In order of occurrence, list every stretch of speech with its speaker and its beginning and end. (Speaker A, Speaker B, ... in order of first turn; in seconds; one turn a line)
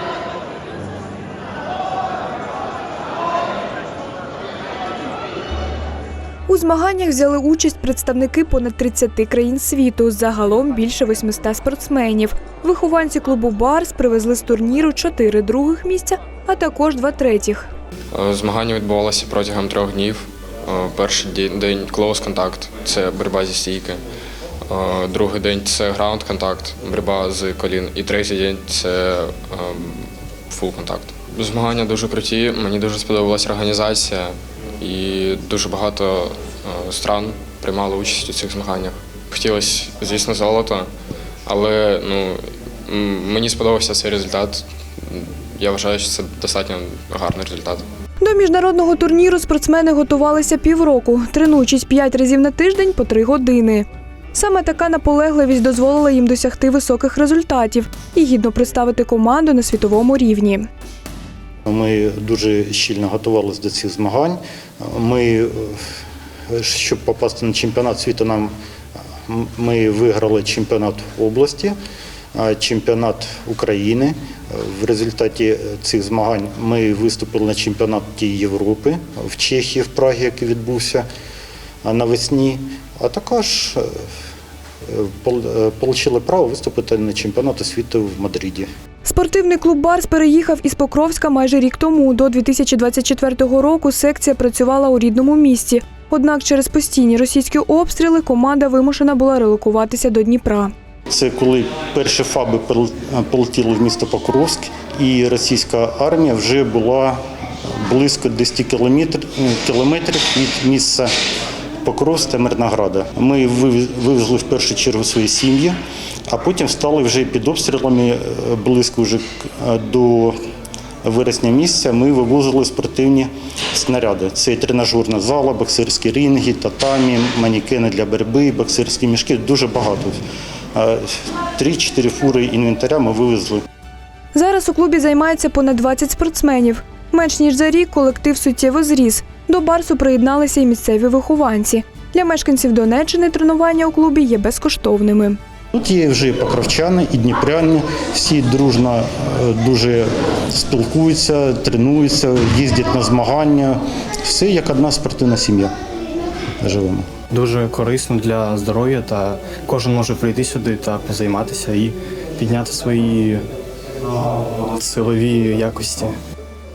Speaker A: 6.5-17.7
Speaker B: 18.1-24.0
Speaker B: 24.7-40.9
Speaker B: 41.5-47.9
Speaker A: 48.2-60.7
Speaker C: 61.7-65.8
Speaker C: 66.5-68.5
Speaker C: 69.3-71.8
Speaker C: 72.3-81.1
Speaker C: 81.8-83.9
Speaker C: 84.9-88.7
Speaker A: 89.0-100.7
Speaker C: 101.1-111.1
Speaker C: 111.8-115.8
Speaker C: 116.3-120.4
Speaker C: 121.0-130.2
Speaker C: 130.7-133.6
Speaker A: 134.3-145.4
Speaker C: 145.7-155.7
Speaker C: 156.6-157.1
Speaker D: 157.3-163.4
Speaker D: 164.2-166.2